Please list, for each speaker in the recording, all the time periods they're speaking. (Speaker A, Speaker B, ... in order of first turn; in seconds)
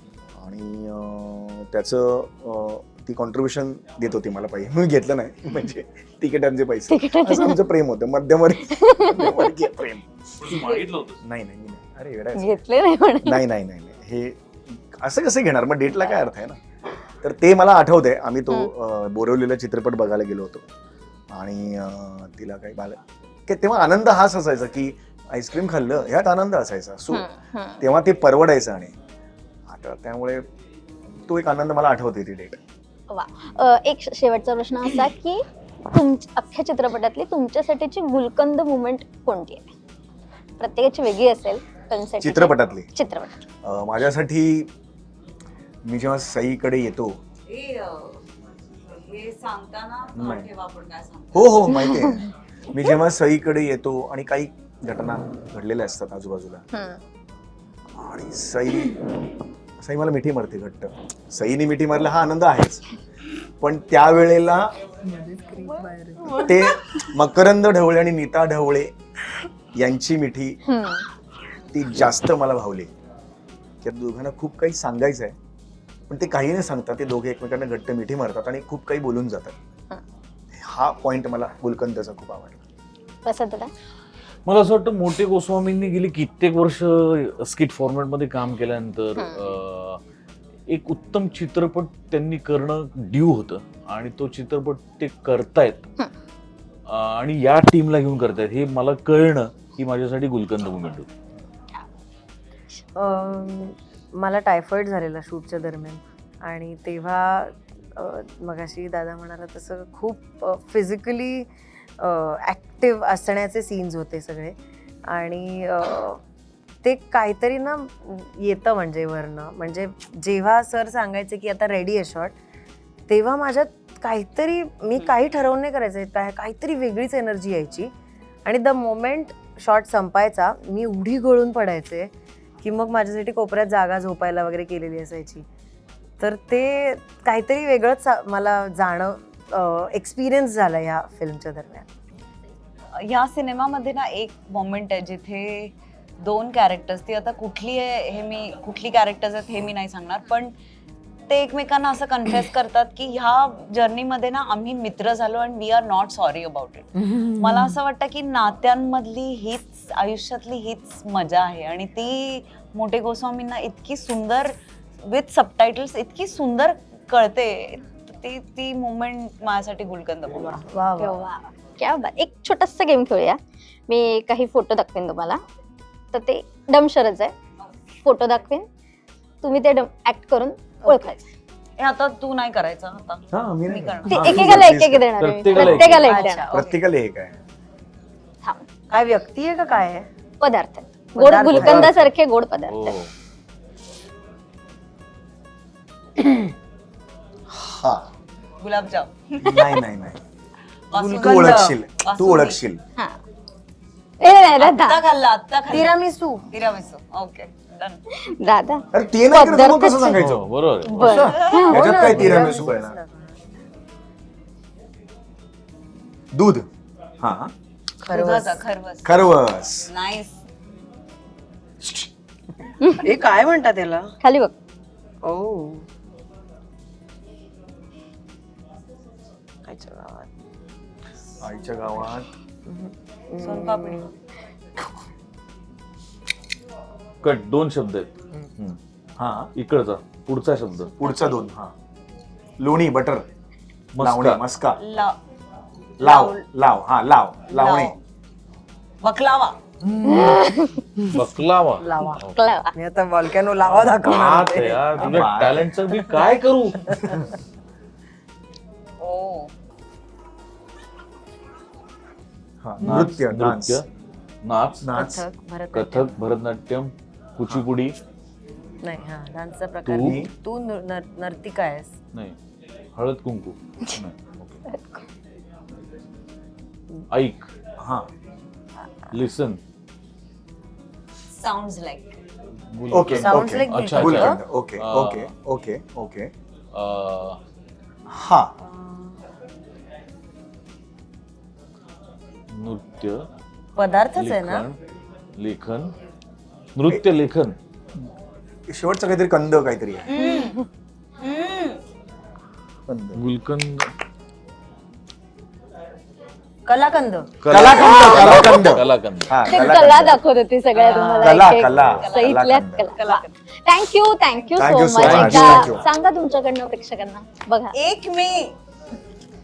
Speaker A: 0.4-10.6, 11.2-12.6, 13.2-16.6, 17.2-20.6, 21.3-27.3, 27.8-28.9, 29.7-30.4, 31.3-32.6, 42.2-42.9, 43.6-44.7, 45.8-47.2, 50.1-50.5, 51.3-56.6, 58.0-59.0, 59.8-62.9, 63.6-64.7, 66.3-68.9, 69.7-70.6, 71.7-72.9, 73.8-75.3, 76.1-79.5, 80.5-82.6, 183.3-185.1, 186.5-187.3, 197.5-198.1, 199.4-200.2, 201.1-202.8, 208.9-213.0, 216.3-216.7, 217.2-217.5, 219.0-219.9, 221.8-222.1, 231.4-232.3, 239.2-239.5, 241.0-241.7, 242.6-243.2, 244.0-244.8, 246.0-247.9, 254.9-255.8, 262.6-263.8, 264.8-265.2, 269.9-270.3, 277.8-278.1, 282.9-286.3, 288.1-288.5, 298.7-300.1, 302.9-303.2, 307.5-310.2, 311.2-312.9, 314.6-315.8
Speaker B: 6.9-7.6, 8.7-9.5, 12.3-13.4, 27.1-27.8, 33.1-39.7, 40.6-43.4, 51.8-52.1, 56.7-57.0, 70.6-71.0, 83.2-83.7, 89.2-89.5, 171.0-175.4, 176.1-177.3, 178.0-178.7, 179.4-181.2, 184.1-186.5, 188.4-188.7, 190.4-193.0, 204.2-205.0, 208.1-210.2, 210.8-211.9, 224.2-224.5, 250.0-250.8, 252.3-252.7, 274.7-275.0, 308.0-308.3, 309.4-317.7
Speaker C: 10.4-11.2, 84.5-90.0, 90.7-95.9, 96.9-101.1, 184.1-184.6, 185.1-186.2, 191.5-192.1, 192.7-193.1, 210.2-211.3, 212.0-212.7, 237.2-238.8, 239.5-241.0, 243.9-244.4, 251.1-252.4, 253.6-257.2, 262.8-263.8, 264.4-264.9, 265.7-268.0, 269.9-270.2, 272.9-274.6, 277.1-277.5, 279.1-279.6, 282.7-285.3, 286.7-287.4, 292.5-293.2, 294.1-294.8, 295.4-295.9, 296.7-297.6, 303.1-303.9, 307.4-309.5, 311.7-312.1, 315.0-315.7
Speaker D: 47.5-48.2, 48.9-51.7, 143.0-150.5, 151.3-170.6, 181.8-184.4, 198.6-199.8, 200.9-202.6, 204.6-206.0, 206.5-208.0, 218.1-219.3, 219.9-220.4, 233.4-234.0, 244.8-245.2, 246.0-246.4, 247.5-248.0, 249.0-249.6, 259.0-259.5, 281.3-282.2, 300.1-300.6, 301.2-301.8, 310.7-311.3, 312.0-312.4, 313.0-313.3, 317.7-318.6
Speaker E: 65.0-66.9, 103.0-114.5, 115.1-116.2, 116.8-122.3, 123.1-127.9, 128.4-132.1, 132.6-135.4, 136.2-141.9, 157.0-157.8, 170.3-171.2, 180.9-181.1, 185.5-186.7, 188.9-190.1, 191.1-192.0, 196.2-196.5, 200.9-201.8, 205.7-206.5, 211.0-213.4, 218.0-218.6, 223.0-224.1, 225.2-225.8, 229.7-230.3, 232.7-234.1, 251.8-252.2, 252.7-255.0, 264.9-266.1, 268.8-271.9, 283.2-284.4, 288.6-289.2, 293.8-294.6, 306.7-307.3, 310.8-311.5